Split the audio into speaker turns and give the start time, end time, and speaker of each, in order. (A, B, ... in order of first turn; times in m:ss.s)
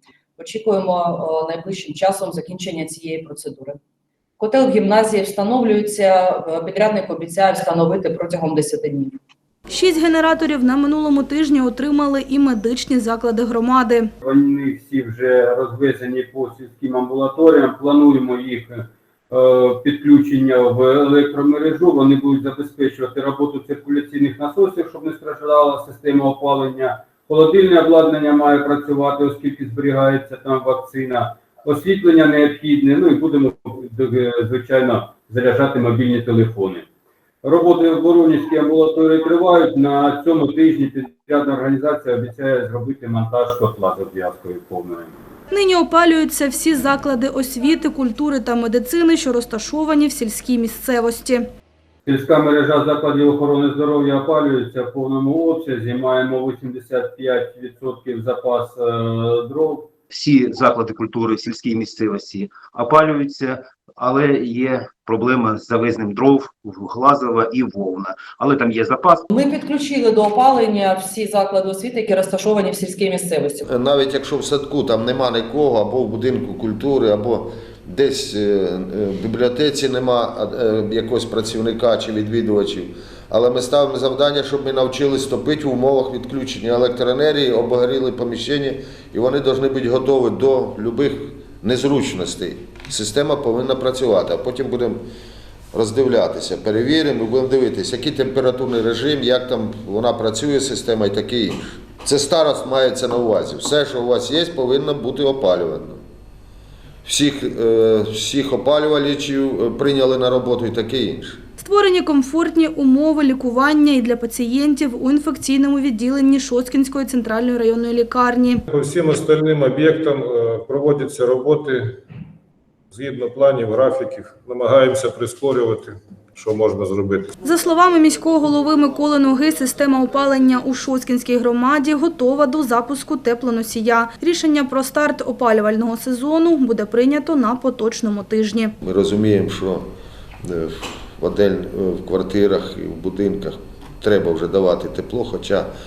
0:00.4-0:03.8 A
0:04.4-0:09.2 A
0:09.7-0:14.1 B
0:14.2-0:36.9 C
0:37.4-0:45.1 C
0:45.5-0:51.4 B
0:52.0-0:59.9 C
1:00.1-1:09.2 D
1:09.3-1:13.6 A
1:13.6-1:35.0 E
1:35.7-1:46.0 E
1:47.0-1:51.4 E
1:51.6-1:58.6 B
1:58.7-2:02.0 F
2:02.9-2:07.3 F
2:07.4-2:18.7 B
2:18.8-2:19.8 E
2:20.4-2:25.7 E